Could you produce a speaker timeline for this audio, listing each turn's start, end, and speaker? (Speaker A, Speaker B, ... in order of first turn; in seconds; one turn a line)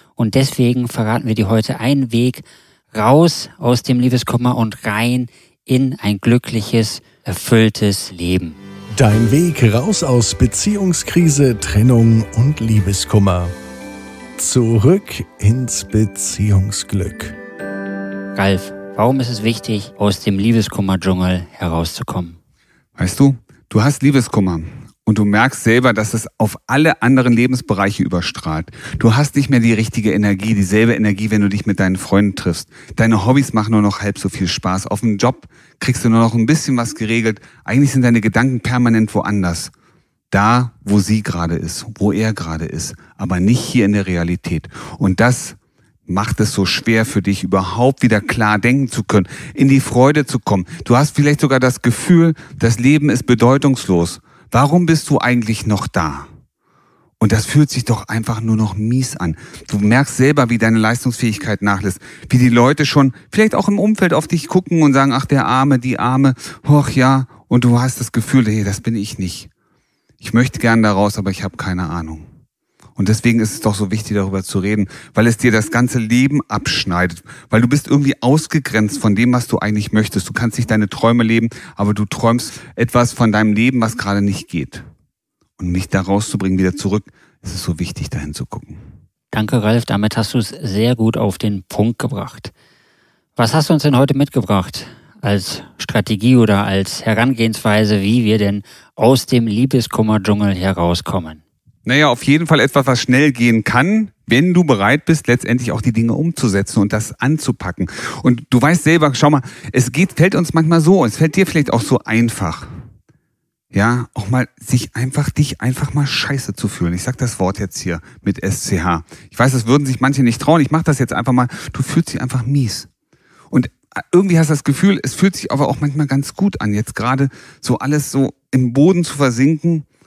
Speaker A: 0.2-8.6
Speaker B: 9.0-13.5
Speaker B: 14.4-17.4
Speaker A: 18.3-22.4
Speaker C: 23.0-39.7
Speaker C: 40.3-45.6
Speaker C: 46.1-56.3
Speaker C: 57.2-69.5
Speaker C: 70.2-72.3
Speaker C: 73.0-84.8
Speaker C: 85.6-88.8
Speaker A: 89.3-92.5
Speaker A: 93.3-101.4
Speaker C: 101.8-112.7
Speaker C: 113.7-122.9
Speaker C: 123.5-129.8